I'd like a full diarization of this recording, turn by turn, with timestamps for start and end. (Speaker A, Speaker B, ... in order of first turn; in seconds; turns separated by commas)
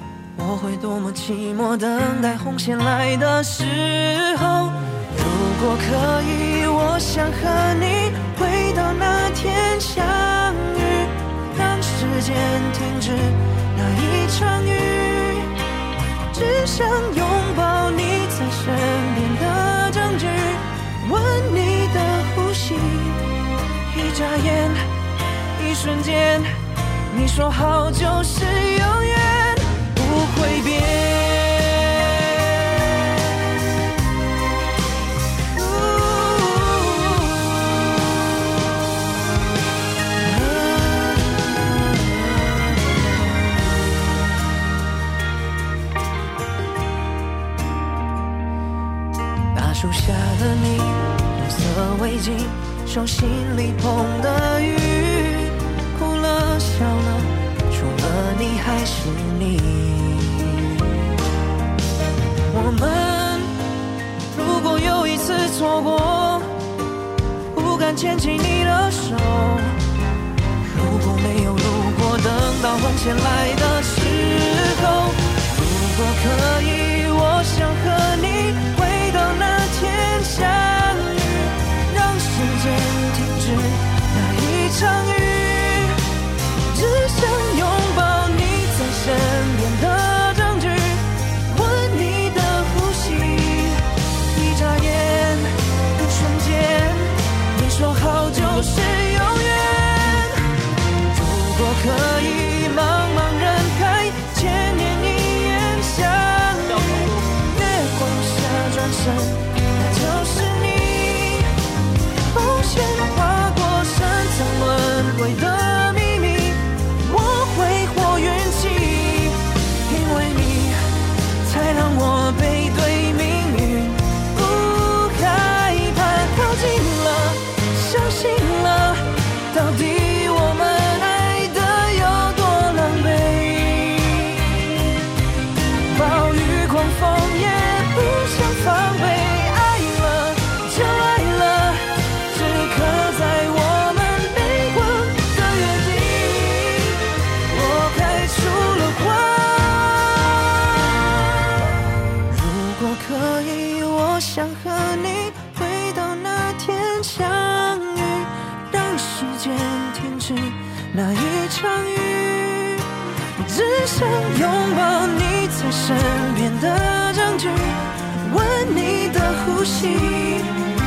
Speaker A: 0.4-15.5, Speaker A: 16.3-23.3, Speaker A: 23.9-24.9, Speaker A: 25.6-26.5, Speaker A: 27.1-33.2, Speaker A: 35.5-38.2, Speaker A: 40.2-43.9, Speaker A: 49.5-60.8, Speaker A: 62.5-63.5, Speaker A: 64.3-66.5, Speaker A: 67.5-69.8, Speaker A: 70.6-86.0, Speaker A: 86.7-100.4, Speaker A: 101.1-111.5, Speaker A: 112.2-120.8, Speaker A: 121.4-134.8, Speaker A: 135.9-151.6, Speaker A: 152.2-170.5